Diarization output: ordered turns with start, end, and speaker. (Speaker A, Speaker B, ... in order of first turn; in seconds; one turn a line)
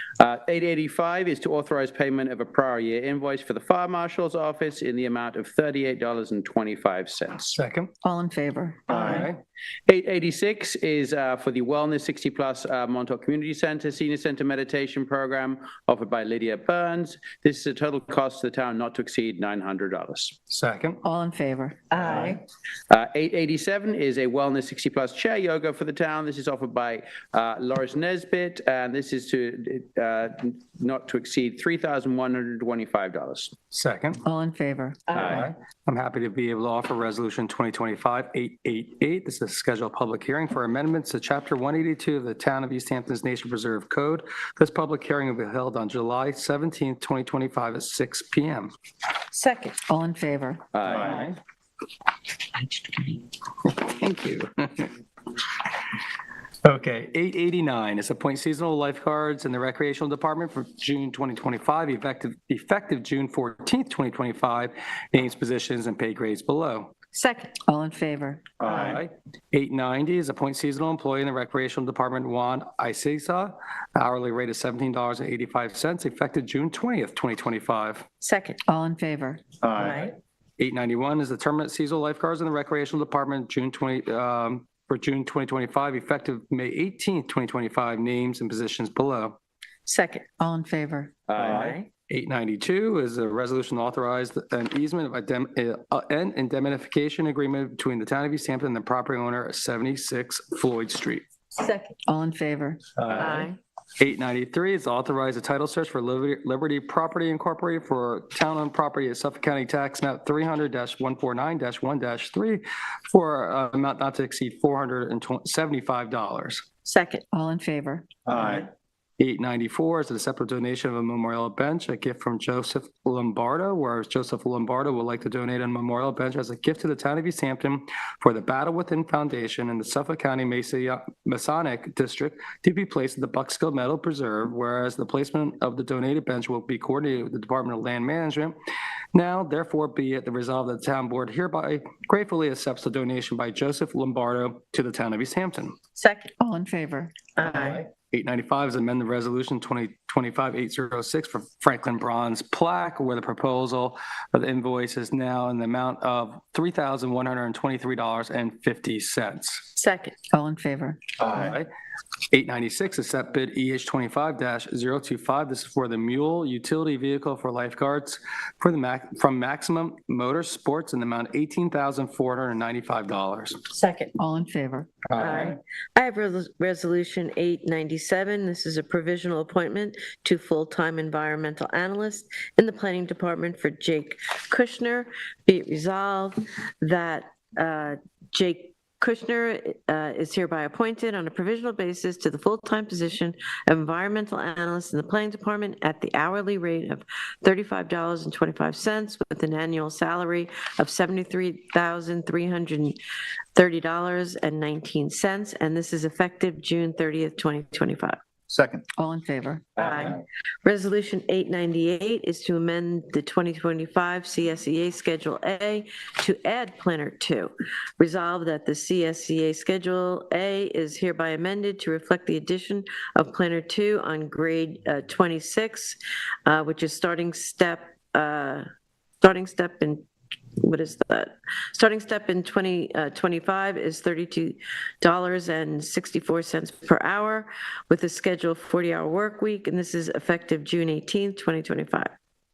Speaker A: 0.2-7.6
Speaker B: 7.5-7.9
Speaker C: 8.0-8.8
Speaker B: 8.9-9.4
Speaker D: 8.9-9.2
Speaker A: 9.9-20.3
Speaker B: 20.5-21.0
Speaker C: 21.3-21.8
Speaker E: 21.9-22.4
Speaker A: 22.9-33.5
Speaker B: 33.7-34.2
Speaker C: 34.5-35.1
Speaker A: 35.1-35.5
Speaker B: 35.2-48.7
Speaker E: 49.3-49.8
Speaker C: 49.9-50.6
Speaker A: 50.7-51.1
Speaker B: 50.9-51.4
Speaker B: 52.8-54.9
Speaker B: 56.6-66.9
Speaker E: 67.1-67.5
Speaker C: 67.7-68.4
Speaker D: 68.6-69.0
Speaker B: 68.6-78.0
Speaker E: 78.2-78.6
Speaker C: 78.7-79.4
Speaker D: 79.6-80.1
Speaker E: 79.8-80.1
Speaker B: 80.6-89.4
Speaker E: 89.8-90.3
Speaker C: 90.4-91.1
Speaker A: 91.3-91.8
Speaker E: 91.4-91.9
Speaker B: 92.1-101.2
Speaker E: 101.5-102.0
Speaker C: 102.1-102.8
Speaker B: 103.0-103.5
Speaker E: 103.1-103.6
Speaker B: 104.0-116.6
Speaker E: 116.8-117.2
Speaker C: 117.3-118.0
Speaker D: 118.3-118.7
Speaker B: 119.2-138.6
Speaker B: 139.1-145.7
Speaker E: 145.9-146.3
Speaker C: 146.4-147.2
Speaker E: 147.4-147.8
Speaker B: 147.4-159.7
Speaker E: 159.8-160.2
Speaker C: 160.3-161.0
Speaker B: 161.2-161.7
Speaker B: 162.3-173.6
Speaker E: 173.7-174.2
Speaker C: 174.2-174.9
Speaker E: 175.2-203.0
Speaker E: 203.5-208.2
Speaker D: 208.5-208.8
Speaker C: 209.0-209.7
Speaker E: 209.8-228.6
Speaker E: 229.2-230.1
Speaker E: 230.6-242.1